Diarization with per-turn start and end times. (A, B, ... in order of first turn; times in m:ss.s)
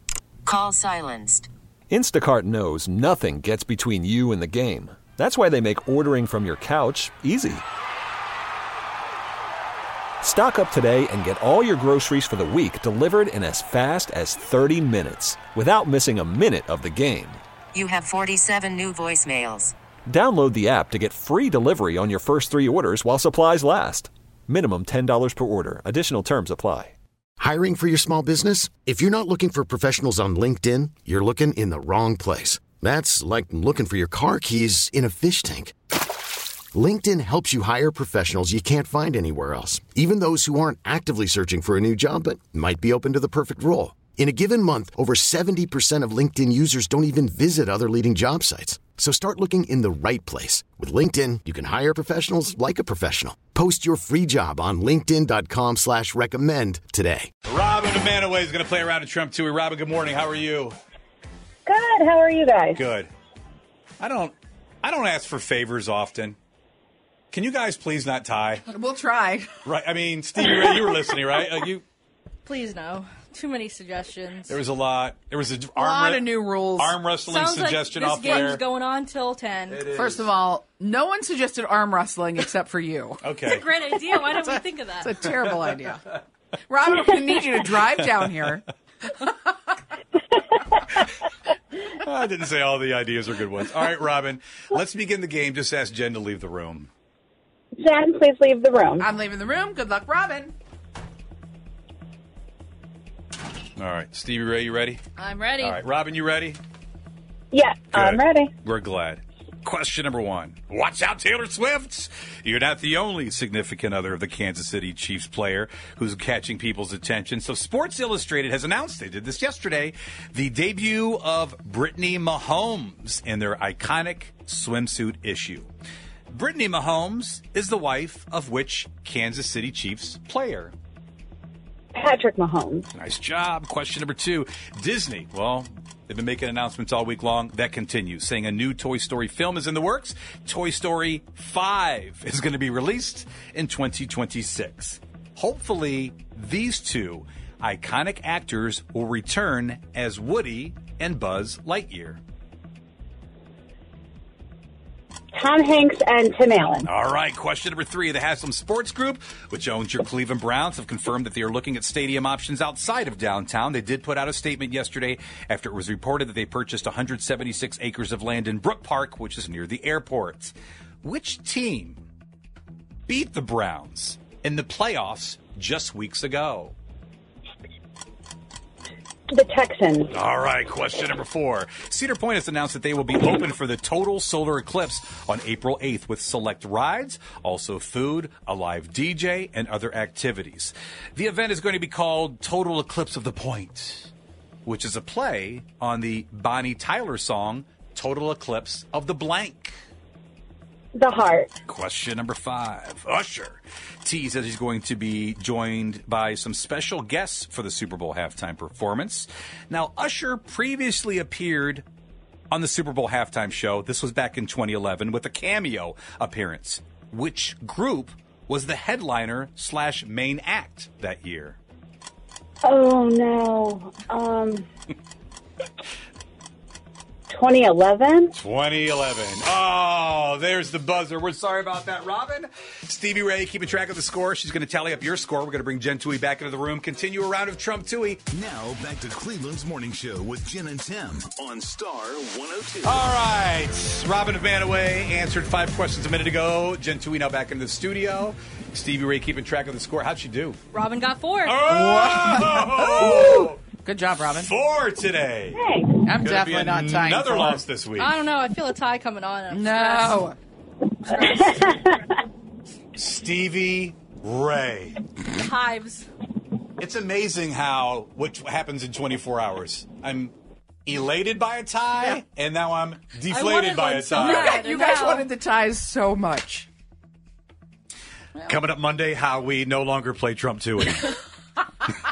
0:00.5-0:01.5 A
0:01.9-0:07.6 B
0:10.2-0:17.4 B
0:17.8-0:19.7 A
0:20.1-0:26.9 B
0:27.4-0:35.7 C
0:36.7-0:57.3 C
0:57.5-1:00.8 D
1:01.7-1:02.8 E
1:02.8-1:03.1 D
1:04.0-1:06.4 D
1:07.3-1:08.7 D
1:08.7-1:09.5 F
1:09.6-1:11.8 D
1:12.4-1:14.6 G
1:14.5-1:18.6 D
1:15.8-1:17.1 F
1:17.2-1:19.8 G
1:19.7-1:20.3 D
1:19.9-1:23.3 F
1:23.2-1:23.7 D
1:23.4-1:25.1 G
1:24.4-1:26.2 F
1:26.7-1:29.3 F
1:32.0-1:36.9 D
1:37.8-1:39.0 E
1:39.0-1:40.5 F
1:43.8-1:45.0 D
1:45.2-1:45.8 G
1:45.6-1:46.6 D
1:47.5-1:48.5 E
1:47.9-2:05.7 D
2:06.3-2:10.7 D
2:12.0-2:12.9 E
2:12.9-2:32.2 D
2:35.3-2:36.9 E
2:36.8-2:52.0 D
2:53.1-2:56.8 D
2:59.3-3:00.1 E
3:00.1-3:14.1 D
3:14.7-3:19.8 D
3:20.9-3:21.5 E
3:21.7-3:31.8 D
3:32.5-3:41.6 D
3:42.6-3:44.7 E
3:47.3-3:48.3 E
3:48.4-3:58.3 D
3:58.4-4:03.0 H
4:02.8-4:10.6 D
4:10.7-4:11.6 G
4:11.4-4:13.6 D
4:11.6-4:14.5 F
4:14.2-4:15.6 D
4:15.5-4:16.0 E
4:16.0-4:17.7 F
4:16.2-4:18.2 D
4:18.0-4:20.3 G
4:19.5-4:20.4 F
4:21.0-4:21.9 G
4:23.0-4:25.0 D
4:25.3-4:26.1 G
4:26.8-4:30.3 D
4:30.9-4:34.6 D
4:33.3-4:35.3 G
4:34.2-4:36.7 F
4:38.5-4:41.2 D